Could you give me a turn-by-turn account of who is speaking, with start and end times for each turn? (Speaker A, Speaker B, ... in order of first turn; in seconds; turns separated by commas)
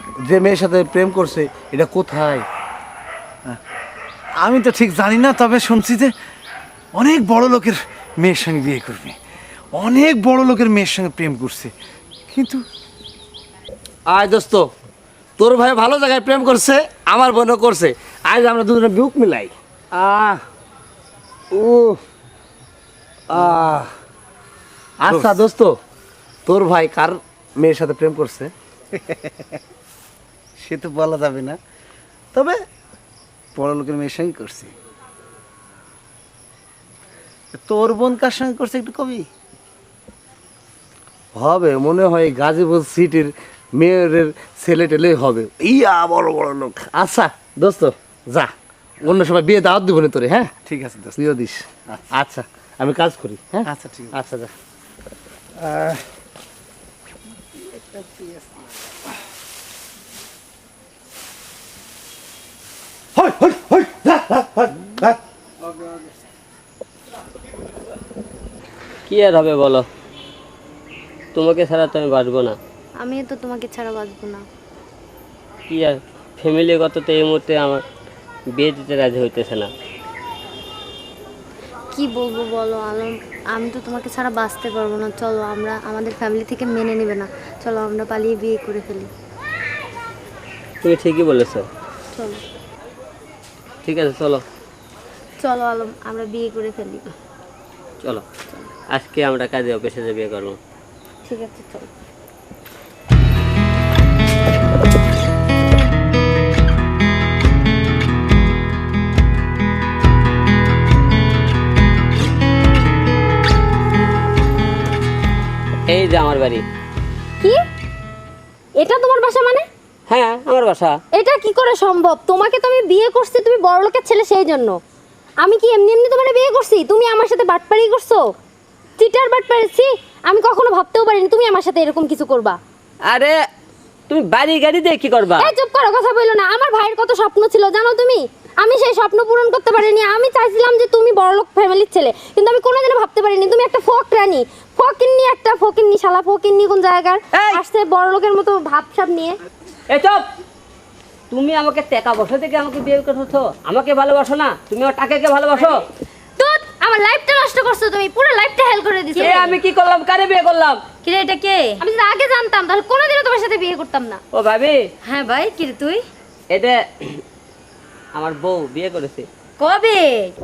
Speaker A: 0.2-2.5, Speaker B: 4.4-6.1, Speaker B: 7.0-9.2, Speaker B: 9.8-11.7, Speaker B: 12.3-12.6, Speaker A: 14.1-14.7, Speaker A: 15.4-20.4, Speaker A: 21.5-22.0, Speaker A: 23.3-23.9, Speaker A: 25.0-25.8, Speaker B: 25.1-25.4, Speaker A: 26.5-28.5, Speaker B: 30.6-31.6, Speaker B: 33.6-34.7, Speaker B: 37.5-39.3, Speaker A: 41.4-50.5, Speaker B: 50.7-51.2, Speaker A: 51.2-54.5, Speaker B: 53.7-54.2, Speaker B: 55.7-56.0, Speaker A: 63.2-65.1, Speaker C: 69.1-69.9, Speaker C: 71.3-72.6, Speaker D: 73.0-74.4, Speaker C: 75.7-77.8, Speaker C: 78.6-79.7, Speaker D: 81.9-89.1, Speaker C: 90.8-91.7, Speaker D: 92.1-92.4, Speaker C: 93.8-94.4, Speaker D: 95.4-97.1, Speaker C: 98.9-100.6, Speaker D: 101.3-101.9, Speaker C: 115.9-116.7, Speaker D: 118.8-119.7, Speaker C: 120.1-121.0, Speaker D: 121.1-124.8, Speaker D: 125.4-128.2, Speaker D: 129.0-132.6, Speaker C: 133.1-133.4, Speaker C: 134.1-135.5, Speaker D: 135.4-149.4, Speaker C: 147.3-147.6, Speaker C: 149.9-150.2, Speaker C: 151.3-155.8, Speaker D: 156.4-159.6, Speaker C: 159.2-160.8, Speaker E: 161.0-161.8, Speaker D: 161.8-164.2, Speaker C: 164.3-164.8, Speaker E: 165.1-166.0, Speaker C: 166.5-167.2, Speaker C: 168.2-169.3, Speaker E: 169.6-170.3